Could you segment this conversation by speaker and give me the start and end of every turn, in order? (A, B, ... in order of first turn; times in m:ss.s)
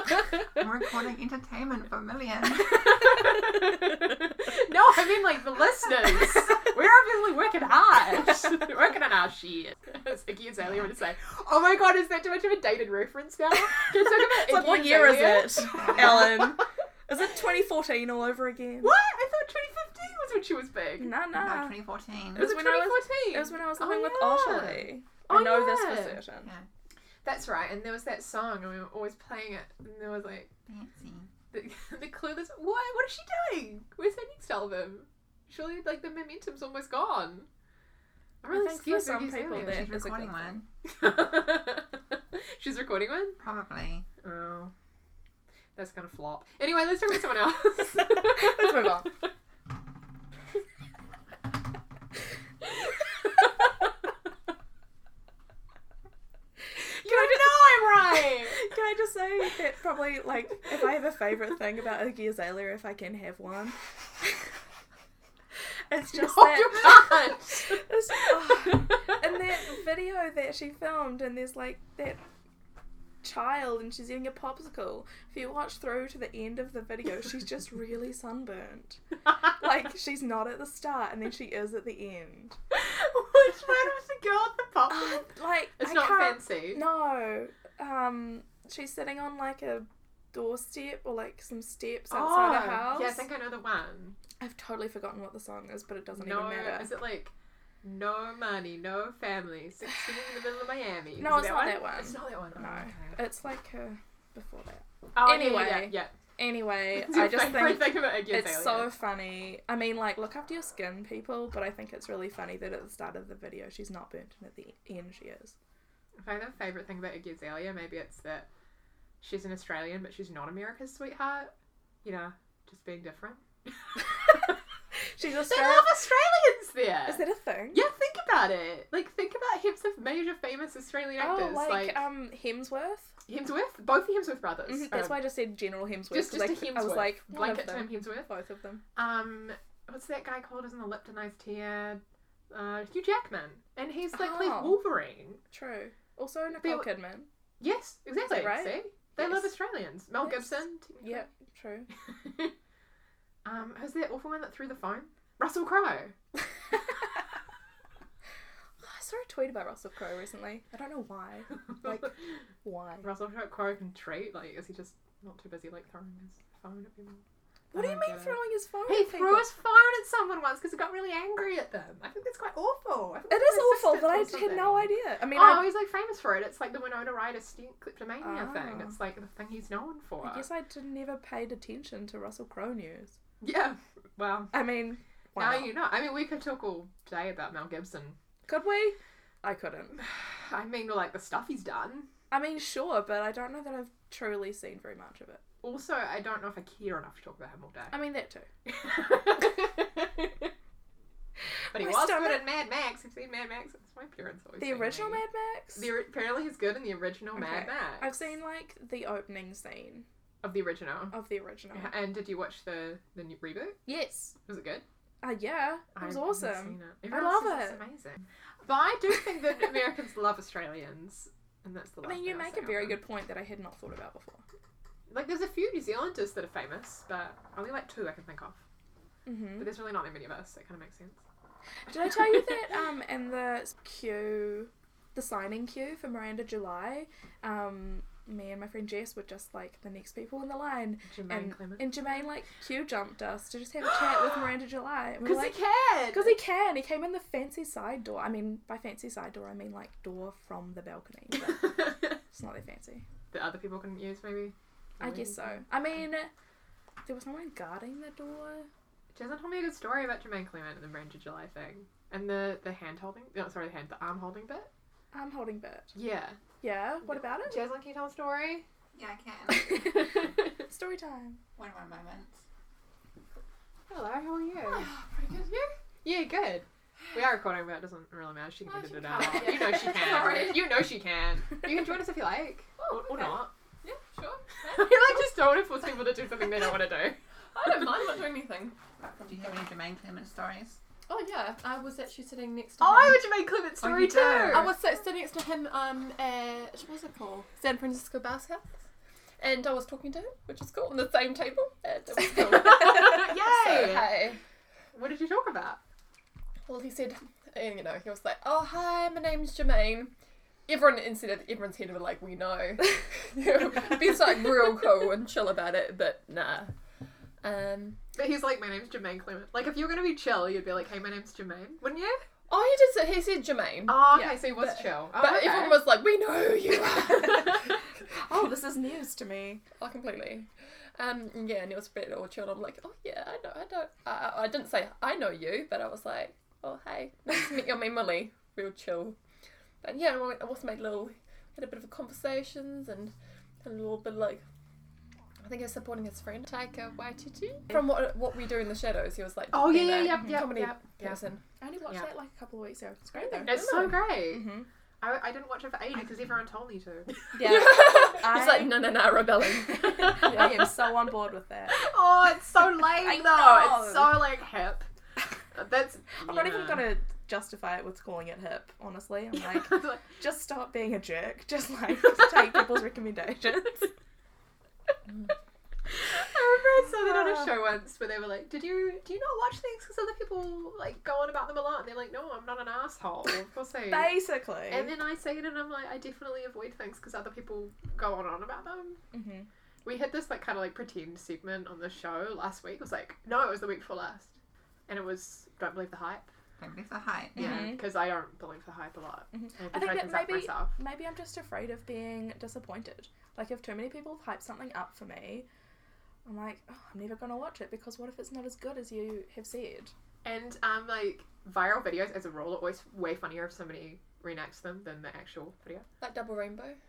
0:00.4-0:03.3 A
0:02.7-0:16.5 B
0:14.0-0:18.9 C
0:15.6-0:16.5 A
0:18.8-0:21.1 B
0:21.0-0:21.8 C
0:21.4-0:22.5 A
0:22.3-0:26.2 B
0:22.3-0:26.5 C
0:27.2-0:30.5 B
0:30.7-0:31.3 A
0:31.5-0:37.5 B
0:38.4-0:40.0 B
0:38.5-0:40.6 C
0:39.5-0:40.7 A
0:40.8-0:43.4 B
0:43.4-0:44.1 A
0:44.2-0:44.7 B
0:45.8-0:48.9 B
0:48.0-0:49.1 C
0:56.8-0:58.6 B
0:57.1-1:04.4 C
1:05.9-1:12.2 C
1:06.1-1:09.2 B
1:13.2-1:22.6 C
1:22.7-1:26.8 B
1:24.9-1:33.3 C
1:32.1-1:34.2 B
1:34.4-1:36.9 C
1:36.1-1:37.3 B
1:37.8-1:43.2 B
1:41.2-1:55.6 C
1:45.1-1:46.2 B
1:46.9-1:48.9 B
1:56.2-1:58.5 B
1:59.2-2:01.5 B
2:02.0-2:04.5 B
2:05.1-2:06.0 C
2:05.4-2:12.0 B
2:07.1-2:07.8 C
2:11.2-2:13.1 C
2:13.3-2:15.3 B
2:14.7-2:18.8 C
2:16.1-2:18.3 B
2:19.0-2:25.4 B
2:24.1-2:24.8 C
2:25.5-2:27.3 C
2:26.6-2:26.9 B
2:27.6-2:31.2 B
2:28.2-2:29.5 C
2:30.2-2:31.9 C
2:32.2-2:32.5 B
2:33.4-2:36.2 B
2:38.8-2:43.1 C
2:43.0-3:00.5 B
2:47.7-2:49.5 C
2:53.3-2:55.8 C
2:58.2-2:59.0 C
3:00.2-3:03.2 C
3:03.4-3:04.6 B
3:04.5-3:05.8 C
3:05.4-3:08.2 B
3:08.5-3:10.0 C
3:10.0-3:12.1 B
3:12.3-3:15.4 C
3:15.6-3:18.0 B
3:17.9-3:18.5 C
3:18.7-3:20.5 B
3:21.7-3:28.2 B
3:21.7-3:22.5 C
3:24.6-3:25.9 C
3:27.4-3:30.1 C
3:30.4-3:31.2 B
3:31.1-3:32.0 C
3:31.7-3:34.8 B
3:33.9-3:34.3 C
3:35.2-3:37.8 C
3:36.0-3:43.0 B
3:42.0-3:44.4 C
3:45.1-3:48.6 B
3:49.3-3:49.7 C
3:49.6-3:51.2 B
3:51.9-4:05.6 C
4:01.1-4:02.1 B
4:05.2-4:06.4 B
4:06.1-4:13.0 C
4:11.6-4:11.9 B
4:13.3-4:15.6 B
4:15.0-4:16.3 C
4:17.0-4:18.7 C
4:19.1-4:24.7 B
4:25.1-4:25.9 C
4:25.9-4:26.4 B
4:26.6-4:27.7 C
4:27.1-4:28.7 B
4:28.9-4:30.2 A
4:29.7-4:31.4 C
4:29.9-4:30.3 B
4:31.6-4:32.4 A
4:33.9-4:34.9 B
4:34.7-4:35.7 D
4:36.0-4:43.5 B
4:38.7-4:40.7 D
4:39.9-4:40.3 C
4:42.8-4:45.3 D
4:44.7-4:47.2 B
4:47.5-4:48.8 D
4:49.0-4:50.8 A
4:51.1-4:53.3 D
4:52.8-4:54.7 B
4:53.8-4:54.7 A
4:54.4-4:58.7 D
4:59.4-5:04.4 D
5:02.5-5:04.1 B
5:04.9-5:05.8 B
5:06.7-5:10.1 D
5:10.7-5:16.7 D
5:17.4-5:18.0 D
5:18.2-5:22.2 B
5:22.5-5:24.1 D
5:23.9-5:25.9 B
5:24.1-5:24.8 C
5:24.8-5:27.8 D
5:27.3-5:27.6 C
5:28.1-5:29.6 C
5:29.8-5:39.2 D
5:39.8-5:44.4 D
5:45.4-5:51.4 D
5:49.5-5:51.2 B
5:50.1-5:50.4 C
5:51.6-5:54.7 C
5:53.2-5:54.0 D
5:53.4-5:57.1 B
5:57.3-5:59.0 C
5:57.4-6:01.0 D
5:59.6-6:01.8 C
6:01.7-6:04.9 B
6:03.0-6:04.3 C
6:05.5-6:06.9 B
6:06.2-6:13.9 C
6:09.6-6:10.0 B
6:16.1-6:29.0 B
6:17.0-6:17.5 C
6:23.9-6:24.9 C
6:29.1-6:29.5 C
6:29.8-6:34.4 B
6:34.9-6:36.3 B
6:36.6-6:37.8 A
6:37.4-6:40.8 B
6:37.4-6:37.9 C
6:39.3-6:45.5 C
6:46.2-6:49.9 C
6:50.2-6:55.9 B
6:56.0-6:56.8 D